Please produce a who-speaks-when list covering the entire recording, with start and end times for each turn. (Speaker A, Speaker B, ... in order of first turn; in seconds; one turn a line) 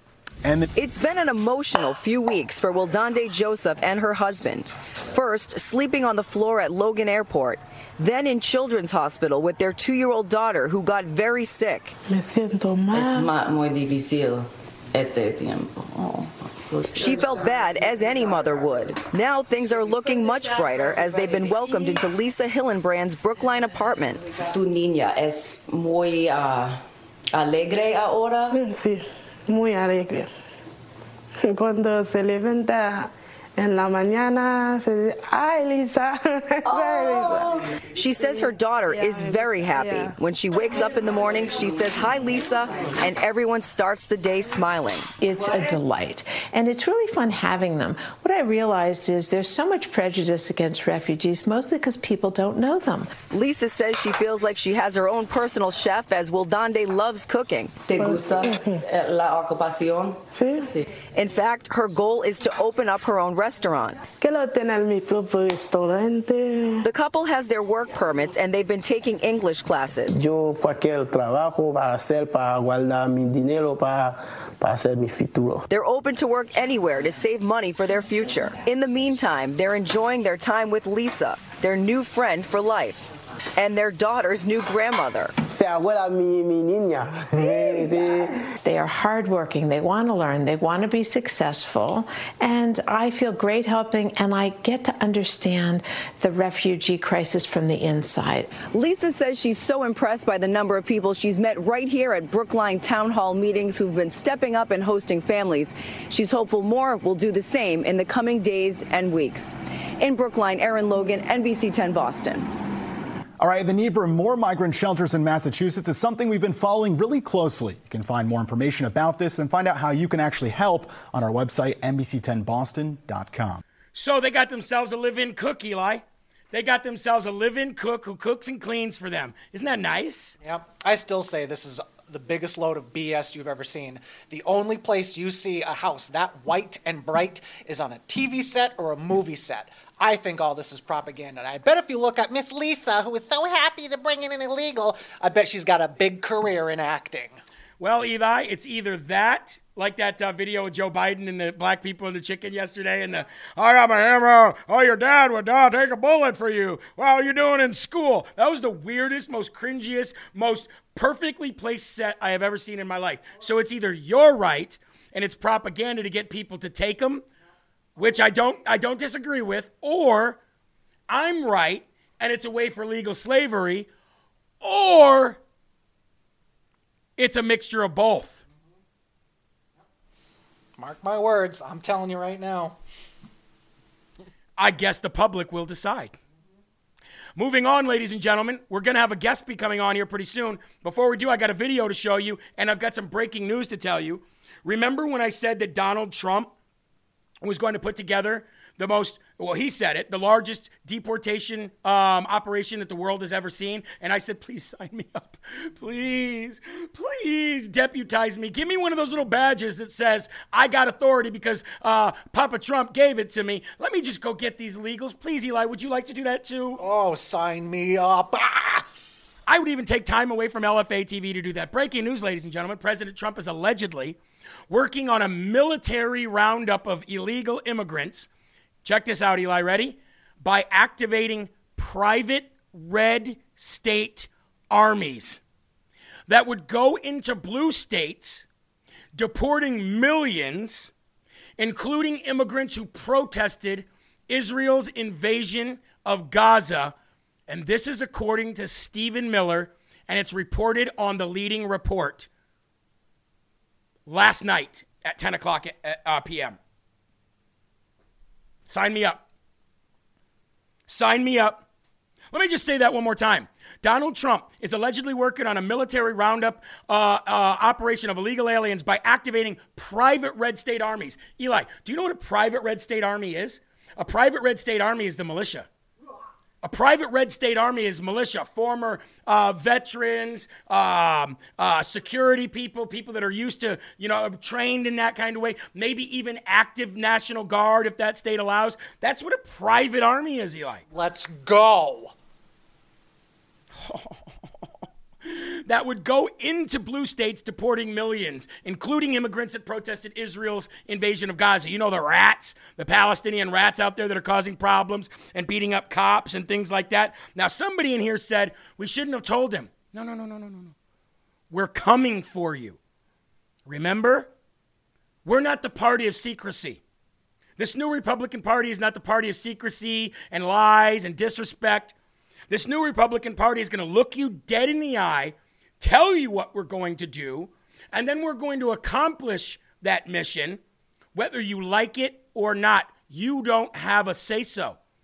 Speaker A: 0.4-0.7
Speaker B: 0.8-11.9
Speaker C: 12.1-13.3
Speaker D: 12.9-17.4
Speaker B: 17.0-24.2
Speaker D: 24.2-26.8
Speaker D: 27.3-28.5
Speaker C: 28.5-30.3
Speaker C: 31.4-37.5
Speaker D: 36.7-37.6
Speaker B: 38.0-45.1
Speaker C: 38.9-40.1
Speaker E: 45.2-53.1
Speaker B: 53.3-57.9
Speaker D: 57.9-60.9
Speaker C: 57.9-58.8
Speaker C: 60.3-60.7
Speaker B: 61.1-64.0
Speaker C: 64.2-66.8
Speaker B: 66.8-70.1
Speaker F: 70.1-75.6
Speaker B: 75.7-85.3
Speaker F: 85.5-88.4
Speaker E: 87.5-88.1
Speaker E: 88.6-98.7
Speaker B: 98.6-112.5
Speaker A: 113.4-123.6
Speaker G: 123.9-130.3
Speaker H: 130.4-147.4
Speaker G: 147.8-167.2
Speaker G: 168.0-170.4
Speaker G: 171.1-173.9
Speaker G: 174.6-175.4
Speaker G: 177.2-178.4
Speaker H: 180.8-182.8
Speaker G: 184.6-186.1
Speaker G: 187.4-196.5
Speaker G: 197.4-216.8
Speaker H: 216.8-218.8
Speaker G: 219.5-224.2
Speaker G: 224.7-228.3
Speaker G: 228.8-235.4
Speaker G: 236.3-238.4
Speaker G: 239.1-240.9
Speaker G: 241.6-246.9
Speaker G: 247.5-252.3
Speaker G: 254.1-256.6
Speaker G: 258.7-259.2
Speaker G: 260.9-261.6
Speaker G: 262.3-275.7
Speaker G: 276.6-290.8
Speaker H: 290.9-292.1
Speaker G: 293.7-294.4
Speaker G: 295.2-310.7
Speaker G: 311.5-312.8
Speaker G: 313.6-314.3
Speaker G: 315.2-316.8
Speaker G: 317.6-321.9
Speaker G: 322.5-330.6
Speaker G: 331.1-334.8